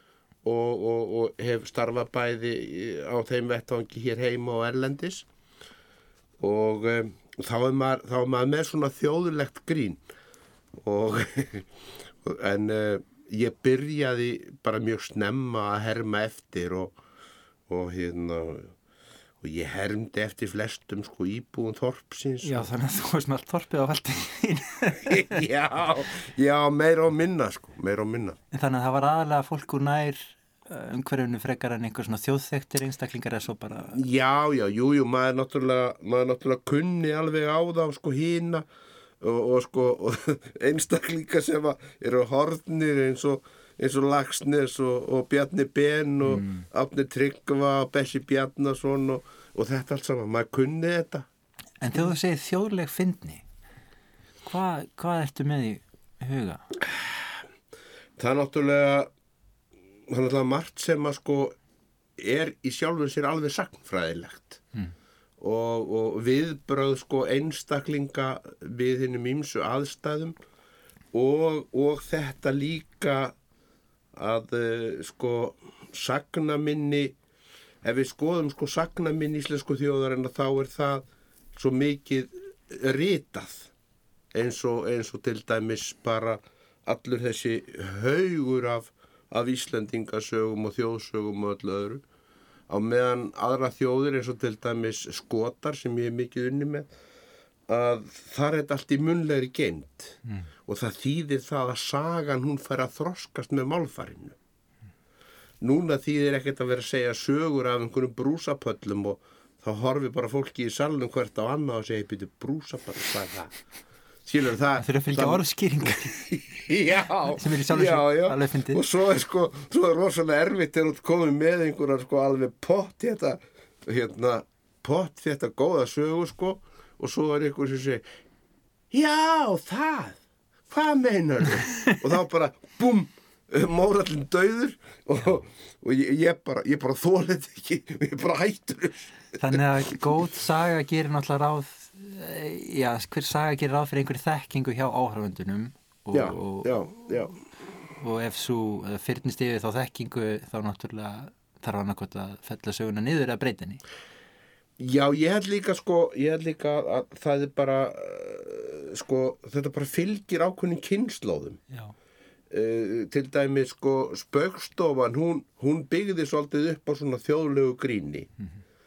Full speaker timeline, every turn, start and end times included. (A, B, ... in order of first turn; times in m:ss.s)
0:00.4-0:05.2 A
0:06.4-0:10.0 A
0:10.8-0:11.7 A
0:12.2-0:17.0 A
0:17.7-0:18.7 A
0:19.4-0:22.6 A
0:22.4-0:25.5 B
0:25.1-0:28.4 A
0:28.5-0:34.0 B
0:33.9-0:38.6 A
0:39.2-0:51.3 A
0:46.2-0:46.6 B
0:51.8-0:53.4 B
0:54.4-0:56.6 B
0:58.2-0:59.1 A
1:00.1-1:01.6 A
1:02.2-1:04.6 A
1:05.4-1:10.4 A
1:11.1-1:13.3 A
1:14.2-1:17.1 A
1:17.8-1:23.7 A
1:24.3-1:32.0 A
1:32.7-1:36.9 A
1:37.7-1:44.4 A
1:45.6-1:53.6 A
1:54.2-2:08.0 A
1:54.8-1:56.2 B
1:57.3-1:58.8 B
2:08.9-2:19.5 A
2:19.4-2:27.3 B
2:26.1-2:27.3 A
2:28.0-2:33.8 B
2:34.8-2:41.6 A
2:41.7-2:41.9 B
2:42.5-2:48.3 A